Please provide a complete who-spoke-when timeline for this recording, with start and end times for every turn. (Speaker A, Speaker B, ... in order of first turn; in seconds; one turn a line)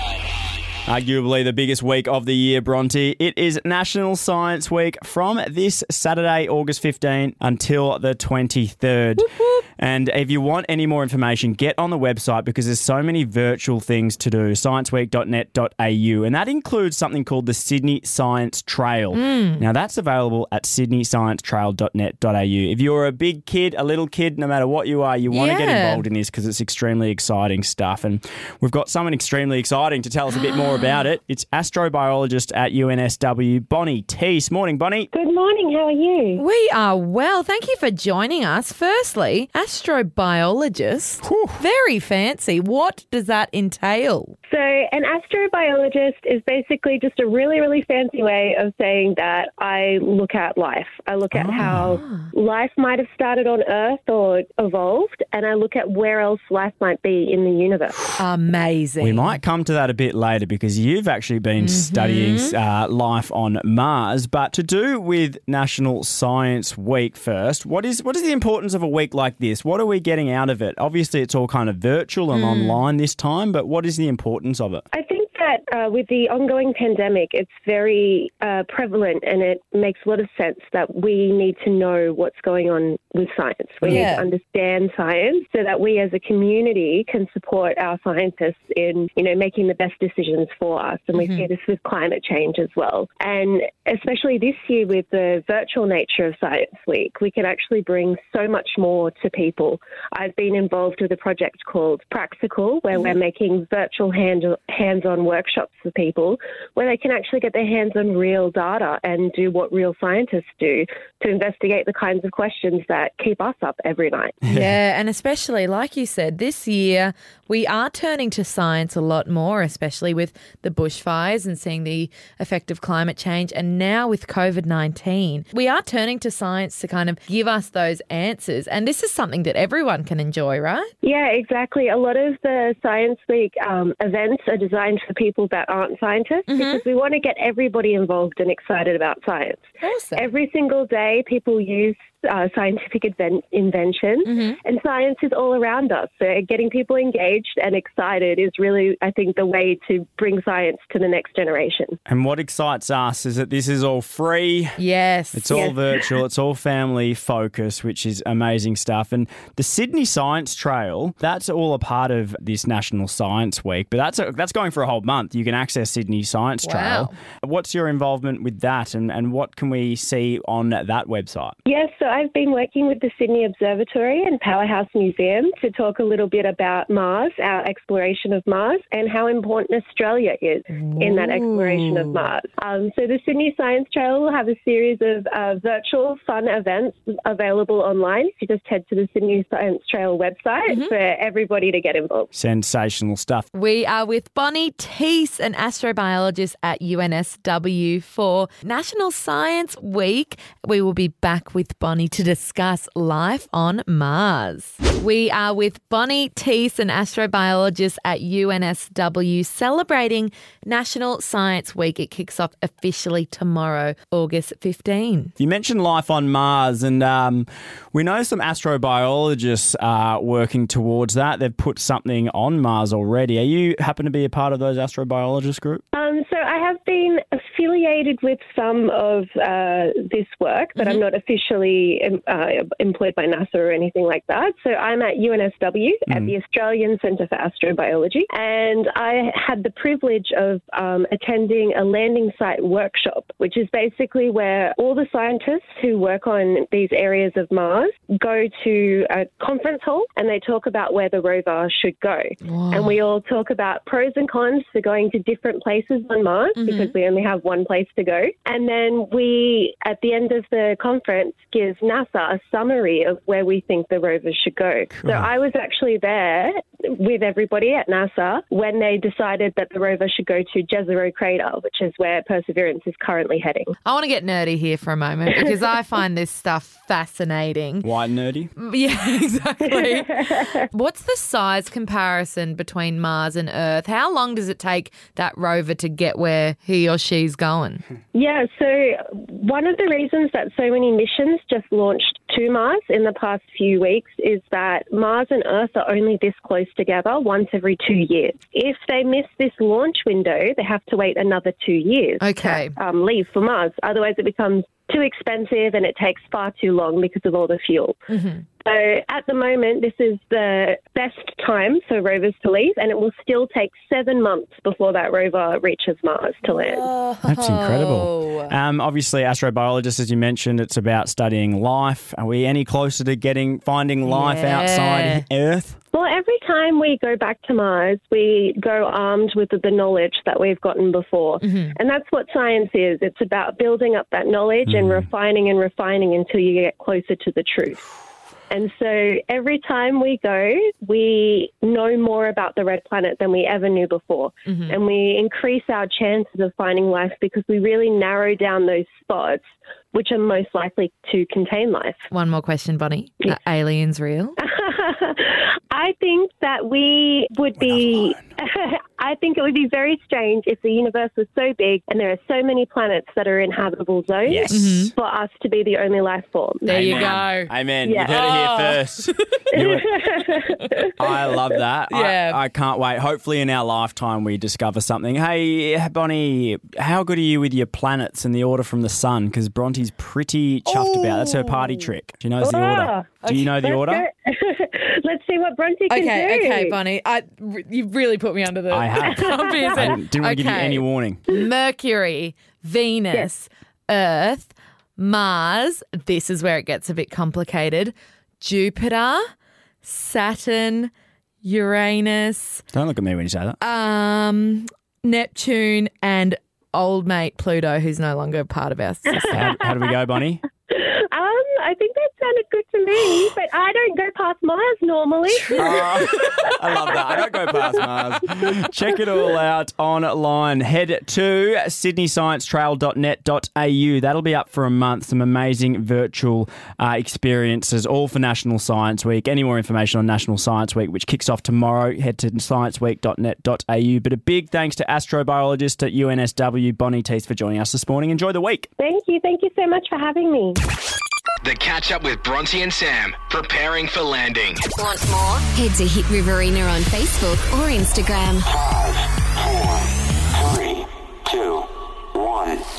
Speaker A: 0.8-35.1
Speaker B: 9.2-9.5
Speaker B: 19.1-19.7
Speaker B: 25.3-26.1
Speaker B: 30.3-31.0
Speaker C: 35.1-36.4
Speaker B: 36.4-44.4
Speaker A: 41.2-41.6
Speaker C: 44.5-58.2
Speaker A: 51.3-52.0
Speaker B: 51.7-52.3
Speaker B: 58.2-59.4
Speaker A: 59.0-74.8
Speaker B: 61.6-62.5
Speaker B: 72.3-72.8
Speaker C: 74.9-114.4
Speaker B: 83.8-84.3
Speaker B: 91.2-91.4
Speaker A: 114.4-114.7
Speaker B: 114.5-130.9
Speaker C: 131.0-152.0
Speaker B: 136.5-136.8
Speaker B: 139.8-140.3
Speaker B: 144.2-144.6
Speaker A: 152.1-154.8
Speaker B: 154.8-155.6
Speaker A: 155.3-171.6
Speaker C: 155.5-156.1
Speaker B: 166.6-167.2
Speaker C: 171.7-192.3
Speaker B: 180.7-182.1
Speaker A: 192.3-193.4
Speaker B: 193.5-215.3
Speaker A: 215.4-225.8
Speaker C: 225.9-273.7
Speaker B: 252.4-253.0
Speaker B: 256.6-256.9
Speaker A: 264.9-265.3
Speaker B: 273.8-277.9
Speaker A: 277.8-278.5
Speaker B: 278.6-287.9
Speaker C: 279.6-280.6
Speaker C: 288.1-308.0
Speaker B: 302.2-302.7
Speaker B: 308.1-308.4
Speaker C: 308.6-316.9
Speaker B: 316.4-318.5
Speaker A: 317.2-325.8
Speaker B: 324.0-325.2
Speaker C: 325.9-337.9
Speaker B: 331.4-331.7
Speaker A: 334.7-335.1
Speaker C: 338.5-352.1
Speaker B: 344.5-344.7
Speaker B: 352.1-354.4
Speaker C: 354.4-367.1
Speaker A: 357.6-358.2
Speaker A: 364.2-364.9
Speaker B: 364.5-364.9
Speaker B: 366.6-367.5
Speaker A: 366.7-369.9
Speaker C: 367.8-368.1
Speaker B: 368.1-369.4
Speaker C: 369.5-370.9
Speaker B: 370.5-370.9
Speaker A: 371.0-384.1
Speaker B: 371.9-372.4
Speaker B: 380.6-381.9
Speaker C: 382.4-386.8
Speaker B: 385.9-399.2
Speaker A: 388.7-391.2
Speaker C: 389.0-389.9
Speaker B: 399.8-400.9
Speaker B: 401.4-402.6
Speaker A: 402.7-403.6
Speaker B: 403.6-409.4
Speaker C: 409.2-409.6
Speaker A: 409.3-410.4
Speaker C: 410.7-417.8
Speaker A: 415.6-438.7
Speaker B: 416.0-416.5
Speaker C: 438.8-440.6
Speaker D: 441.4-444.7
Speaker E: 444.8-448.5
Speaker F: 449.5-449.8
Speaker F: 450.4-452.6